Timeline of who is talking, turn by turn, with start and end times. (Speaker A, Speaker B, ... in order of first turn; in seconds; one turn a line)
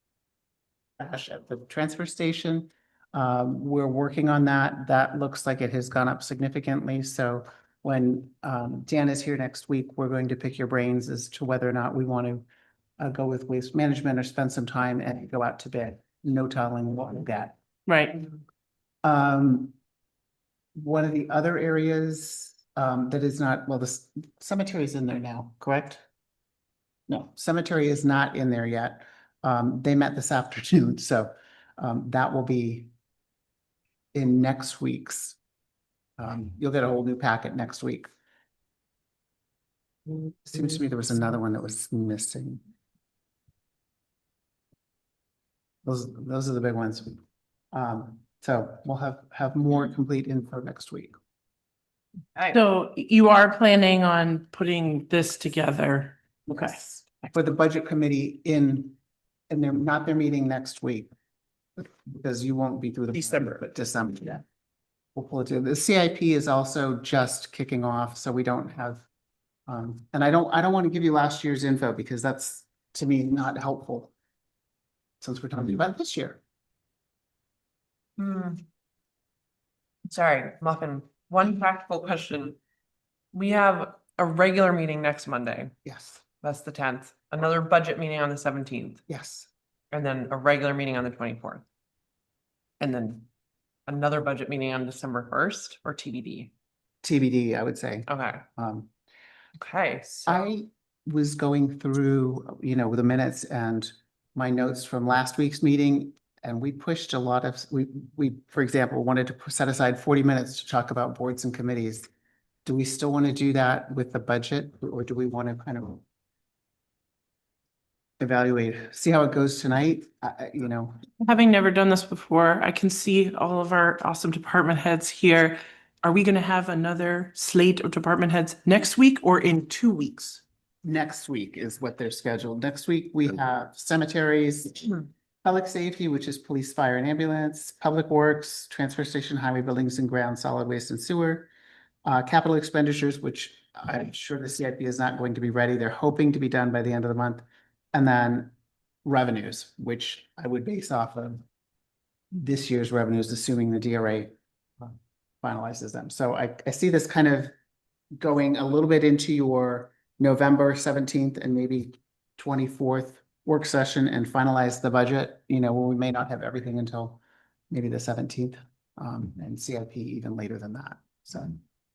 Speaker A: 1.0-12.4
Speaker A: 13.0-17.6
Speaker B: 17.9-18.2
Speaker A: 19.0-19.8
Speaker A: 20.8-26.0
Speaker A: 27.1-32.9
Speaker A: 34.1-35.4
Speaker A: 36.2-38.1
Speaker A: 40.4-42.6
Speaker A: 45.9-47.2
Speaker A: 47.7-51.2
Speaker C: 52.4-52.6
Speaker B: 52.5-56.7
Speaker A: 56.5-59.0
Speaker A: 59.5-61.1
Speaker A: 61.8-64.4
Speaker A: 65.2-69.0
Speaker A: 69.7-74.1
Speaker A: 75.2-76.4
Speaker C: 78.2-78.6
Speaker C: 80.1-82.6
Speaker C: 83.3-85.7
Speaker A: 85.8-86.2
Speaker C: 86.4-89.0
Speaker A: 89.1-89.5
Speaker C: 89.9-91.6
Speaker C: 92.8-93.3
Speaker C: 93.9-96.5
Speaker A: 97.0-98.9
Speaker C: 98.1-98.4
Speaker C: 99.6-100.5
Speaker A: 100.3-112.1
Speaker A: 112.7-116.0
Speaker A: 118.2-121.0
Speaker B: 121.2-130.4
Speaker A: 130.8-141.5
Speaker A: 142.1-148.5
Speaker A: 149.1-151.4
Speaker A: 152.3-157.5
Speaker A: 158.2-167.2
Speaker A: 167.7-171.6